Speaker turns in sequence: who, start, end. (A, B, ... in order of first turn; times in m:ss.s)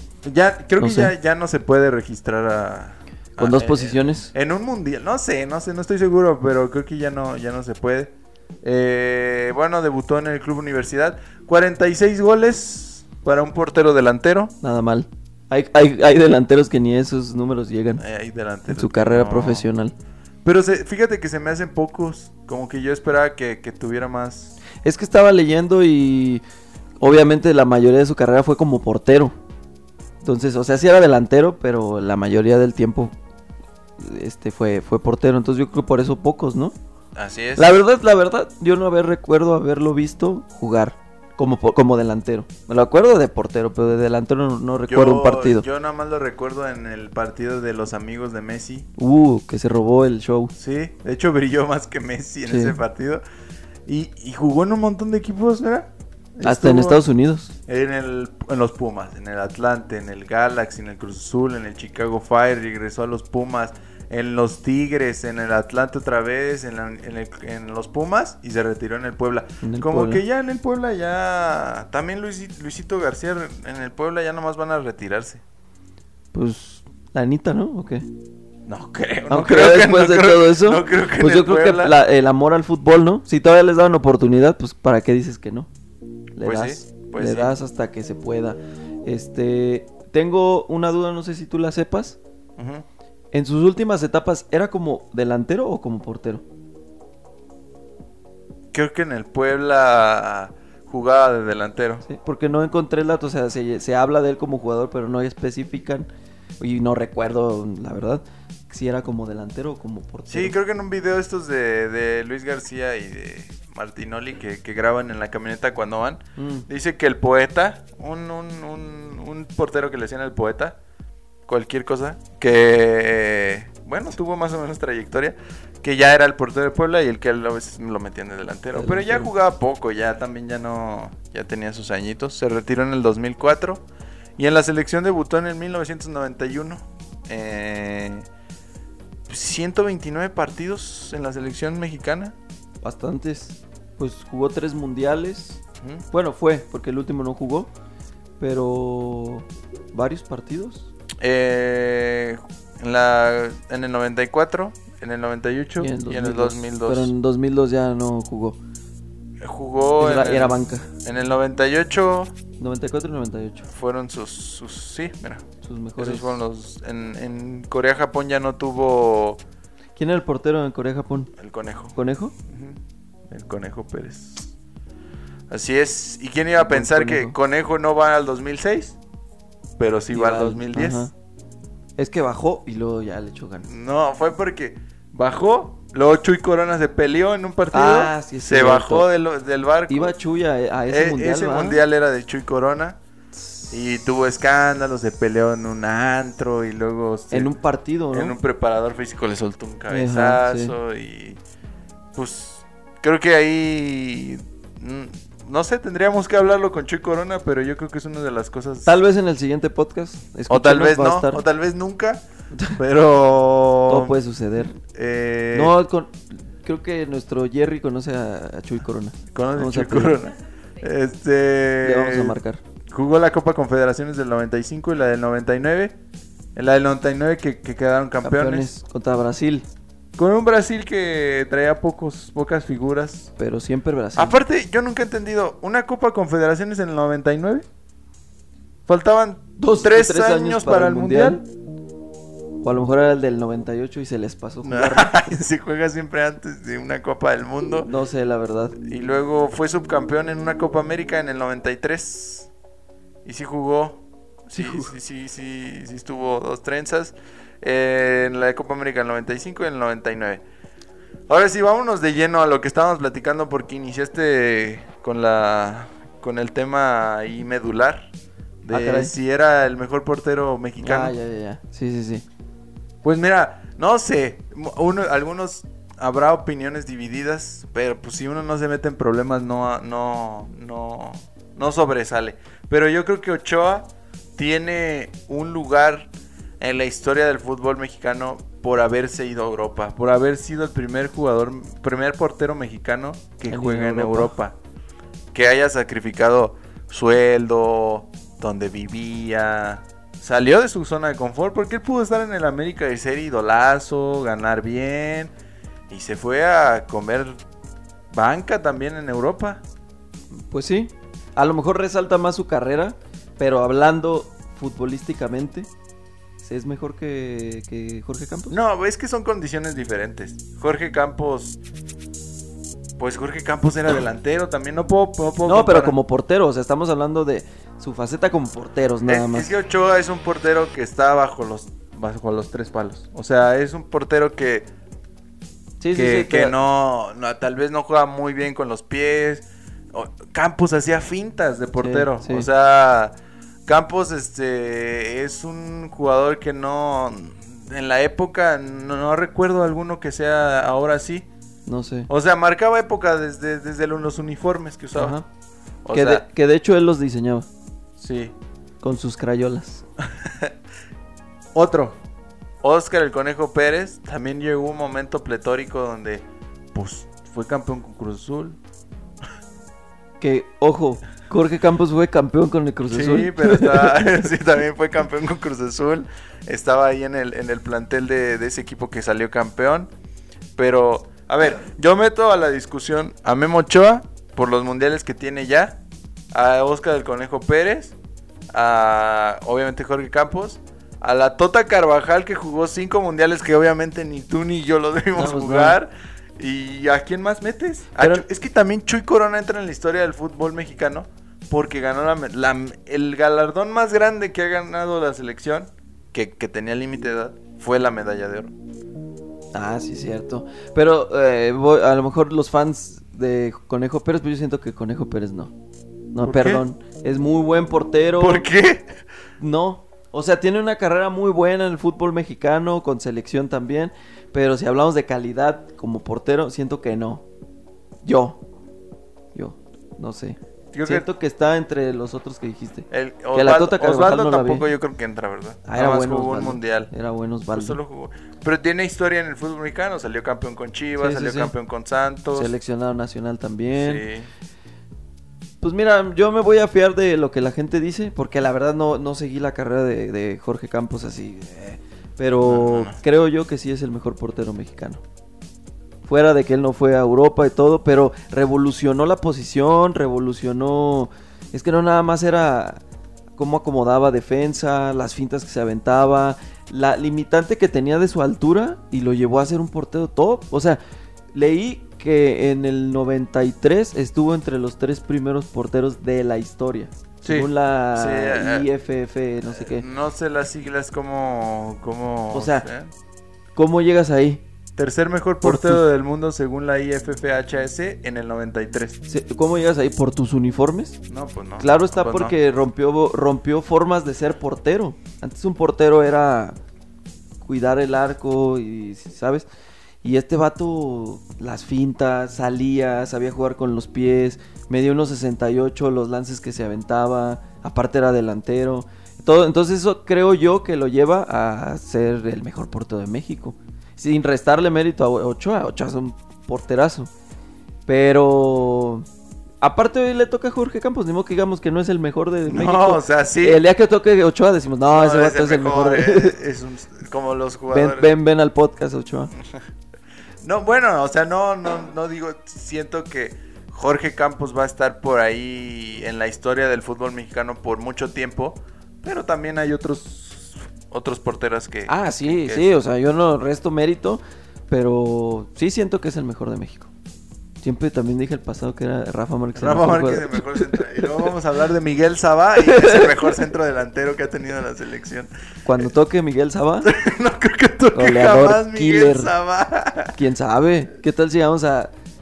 0:00.2-0:14.6 A
0:00.8-0:01.1 B
0:03.4-0:04.3 B
0:14.6-0:18.0 B
0:18.0-0:19.7 A
0:18.7-0:19.9 B
0:20.4-0:24.6 A
0:24.8-0:26.4 B
0:27.0-0:29.4 B
0:30.2-0:33.1 B
0:34.0-0:36.8 B
0:37.2-0:37.8 A
0:37.6-0:45.7 B
0:44.9-0:48.9 A
0:49.0-0:50.5 B
0:50.6-0:53.2 A
0:52.5-0:52.8 B
0:53.9-0:57.0 A
0:56.4-0:57.5 B
0:57.7-1:15.4 A
1:09.6-1:10.2 B
1:16.3-1:18.0 B
1:18.7-1:22.0 A
1:19.3-1:25.7 B
1:26.4-1:32.2 B
1:26.4-1:27.5 A
1:32.6-1:32.8 A
1:33.3-1:36.4 B
1:38.7-1:42.0 A
1:42.0-1:46.1 B
1:46.6-1:50.6 B
1:50.3-2:00.8 A
1:56.4-1:56.7 B
2:01.5-2:13.8 A
2:08.7-2:09.3 B
2:14.4-2:18.3 A
2:19.3-2:22.4 A
2:22.8-2:25.6 B
2:26.1-2:27.7 B
2:28.4-2:30.9 B
2:31.2-2:37.1 A
2:35.8-2:38.6 B
2:39.4-2:42.3 A
2:40.0-2:40.9 B
2:42.6-2:43.7 B
2:43.7-2:45.4 A
2:45.6-2:46.4 B
2:46.0-2:49.4 A
2:50.0-2:51.3 B
2:51.4-2:52.8 A
2:52.0-2:52.3 B
2:53.3-2:54.5 A
2:55.5-2:59.0 A
2:56.6-2:57.4 B
2:59.8-3:01.1 A
3:00.1-3:01.1 B
3:02.0-3:03.7 B
3:03.6-3:10.2 A
3:07.7-3:09.1 B
3:09.9-3:11.8 B
3:10.9-3:13.0 A
3:13.7-3:17.5 A
3:17.3-3:18.4 B
3:18.1-3:21.4 A
3:19.9-3:20.7 B
3:22.2-3:29.0 A
3:28.9-3:31.4 B
3:30.5-3:35.8 A
3:32.5-3:32.8 B
3:33.9-3:34.7 B
3:35.5-3:40.2 B
3:39.3-3:42.4 A
3:41.8-3:42.6 B
3:42.9-3:46.0 A
3:46.6-3:48.7 A
3:48.2-3:49.7 B
3:50.2-3:53.3 A
3:53.4-3:54.4 B
3:54.2-3:57.7 A
3:58.9-4:01.4 A
3:59.6-4:01.4 B
4:02.6-4:05.4 B
4:04.6-4:07.9 A
4:07.8-4:08.8 B
4:08.8-4:12.5 A
4:13.2-4:20.4 A
4:14.5-4:14.9 B
4:21.3-4:28.1 A
4:28.6-4:31.2 A
4:28.7-4:29.1 B
4:30.8-4:32.2 B
4:33.0-4:46.1 A
4:46.6-4:54.6 A
4:53.5-4:54.3 B
4:55.3-5:05.3 A
5:05.9-5:07.4 A
5:08.1-5:09.6 A
5:10.4-5:15.7 B
5:16.4-5:18.6 B
5:18.5-5:21.6 A
5:23.0-5:26.0 A
5:25.4-5:29.5 B
5:29.1-5:34.7 A
5:35.8-5:36.6 B
5:35.9-5:43.1 A
5:41.8-5:42.5 B
5:43.7-5:51.3 A
5:51.7-5:52.1 B
5:52.1-5:55.2 A
5:54.9-5:55.3 B
5:55.8-5:56.2 A
5:55.9-5:57.5 B
5:58.0-5:58.3 A
5:58.8-5:59.8 B
6:00.2-6:00.5 A
6:01.6-6:02.0 A
6:02.6-6:08.6 A
6:10.2-6:14.1 B
6:12.9-6:19.9 A
6:20.6-6:25.8 A
6:26.3-6:28.0 A
6:28.5-6:48.5 A
6:35.1-6:35.8 B
6:38.0-6:38.3 B
6:49.5-6:55.5 B
6:56.1-6:58.5 B
6:56.2-6:56.6 A
6:58.2-6:59.0 A
6:59.4-7:07.2 B
7:08.0-7:08.4 B
7:09.3-7:14.7 B
7:10.7-7:11.1 A
7:12.9-7:16.9 A
7:15.7-7:17.8 B
7:17.5-7:22.5 A
7:21.0-7:21.5 B
7:22.3-7:24.0 B
7:23.7-7:24.3 A
7:25.6-7:35.0 B
7:32.4-7:33.0 A
7:36.0-7:42.8 B
7:43.4-7:50.8 B
7:51.3-7:59.9 B
7:57.2-7:58.7 A
7:59.5-8:02.9 A
8:02.3-8:02.7 B
8:03.6-8:04.4 B
8:04.8-8:09.0 A
8:05.4-8:05.8 B
8:09.1-8:11.0 B
8:11.1-8:12.4 A
8:11.6-8:16.6 B
8:17.4-8:19.5 B
8:20.0-8:37.1 B
8:37.9-8:39.1 B
8:39.6-8:46.4 B
8:42.5-8:43.6 A
8:44.9-8:48.1 A
8:47.7-8:49.3 B
8:50.4-9:02.7 A
9:01.9-9:06.9 B
9:07.6-9:11.3 B
9:09.6-9:15.3 A
9:12.6-9:13.4 B
9:15.6-9:16.9 B
9:16.8-9:20.2 A
9:17.9-9:19.3 B
9:20.2-9:21.9 B